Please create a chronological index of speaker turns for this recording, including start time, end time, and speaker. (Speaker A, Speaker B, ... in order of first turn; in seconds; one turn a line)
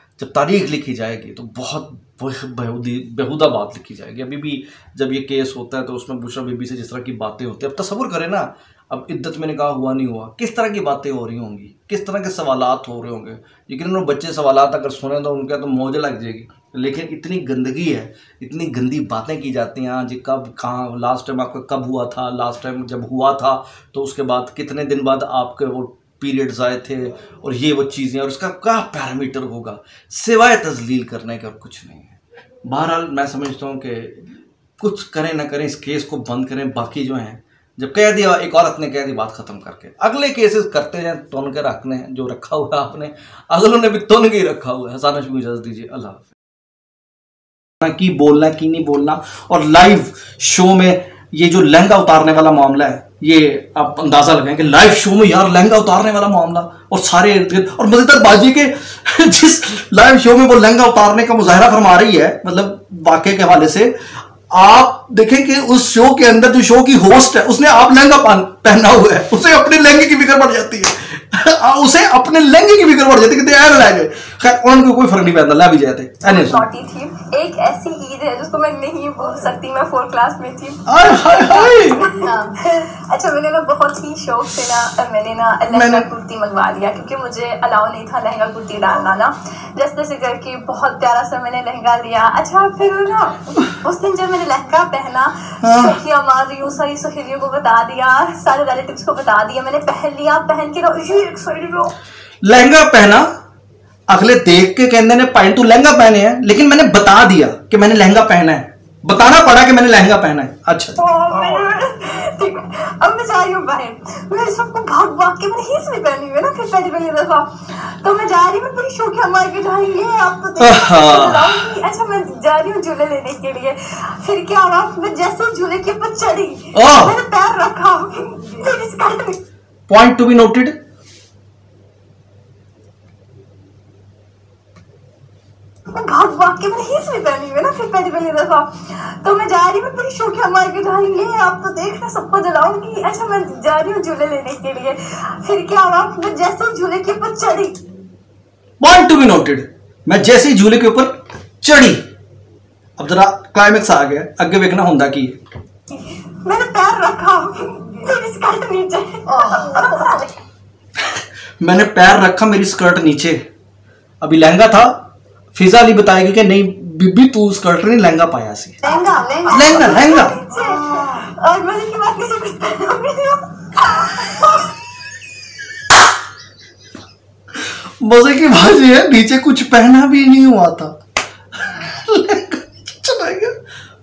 Speaker A: 0.2-34.2
Speaker A: 34.8-46.4
Speaker A: 47.8-64.0
Speaker A: 64.5-76.7
Speaker B: 76.2-101.9
Speaker A: 80.9-82.0
Speaker A: 85.7-86.1
Speaker A: 95.6-96.0
Speaker A: 102.4-103.3
Speaker A: 104.1-111.0
Speaker B: 111.0-129.4
Speaker A: 120.6-121.6
Speaker A: 126.7-127.2
Speaker A: 129.9-130.8
Speaker B: 135.9-147.8
Speaker A: 148.8-152.0
Speaker A: 153.0-155.4
Speaker B: 155.9-160.3
Speaker A: 161.0-163.4
Speaker A: 164.2-168.8
Speaker B: 168.8-174.8
Speaker A: 169.5-170.4
Speaker A: 178.0-181.0
Speaker A: 181.6-183.6